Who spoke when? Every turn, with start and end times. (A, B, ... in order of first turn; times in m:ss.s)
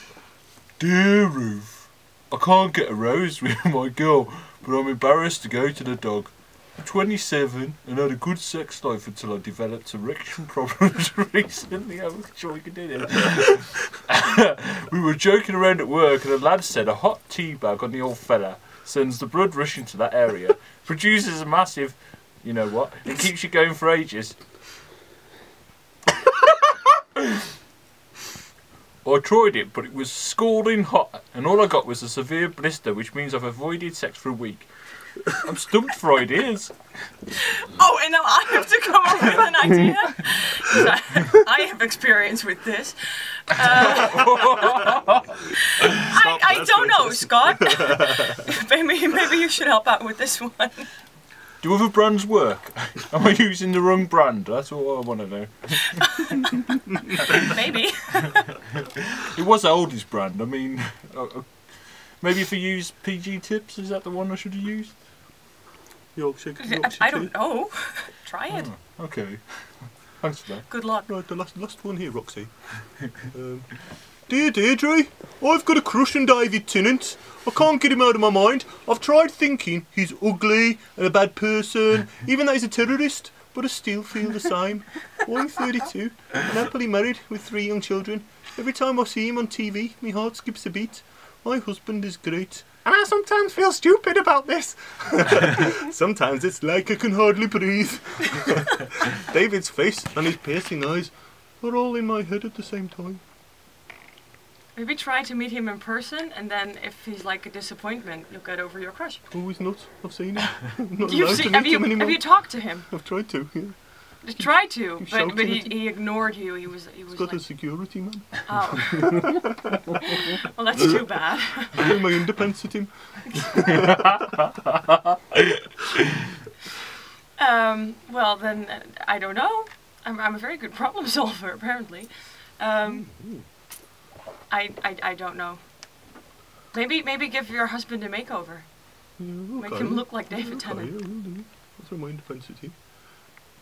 0:00.8-0:24.4 A
0:29.0-0:36.7 A
0:37.3-0:45.0 B
0:43.7-0:45.4 A
0:45.5-0:51.0 B
0:46.1-0:48.0 C
0:51.6-0:56.5 A
0:57.2-0:57.5 A
0:57.4-0:58.7 B
0:59.2-1:05.0 A
1:06.1-1:07.3 C
1:06.6-1:08.8 B
1:08.5-1:10.7 A
1:10.7-1:11.1 B
1:11.1-1:43.2 C
1:44.8-1:49.4 B
1:49.3-1:55.9 C
1:51.0-1:52.9 B
1:54.2-1:59.6 B
1:57.1-2:00.0 C
2:00.1-2:02.0 B
2:01.7-2:04.2 C
2:03.3-2:03.8 B
2:07.4-2:13.4 B
2:13.0-2:13.4 C
2:14.5-2:16.1 B
2:16.7-2:21.0 B
2:19.2-2:22.8 C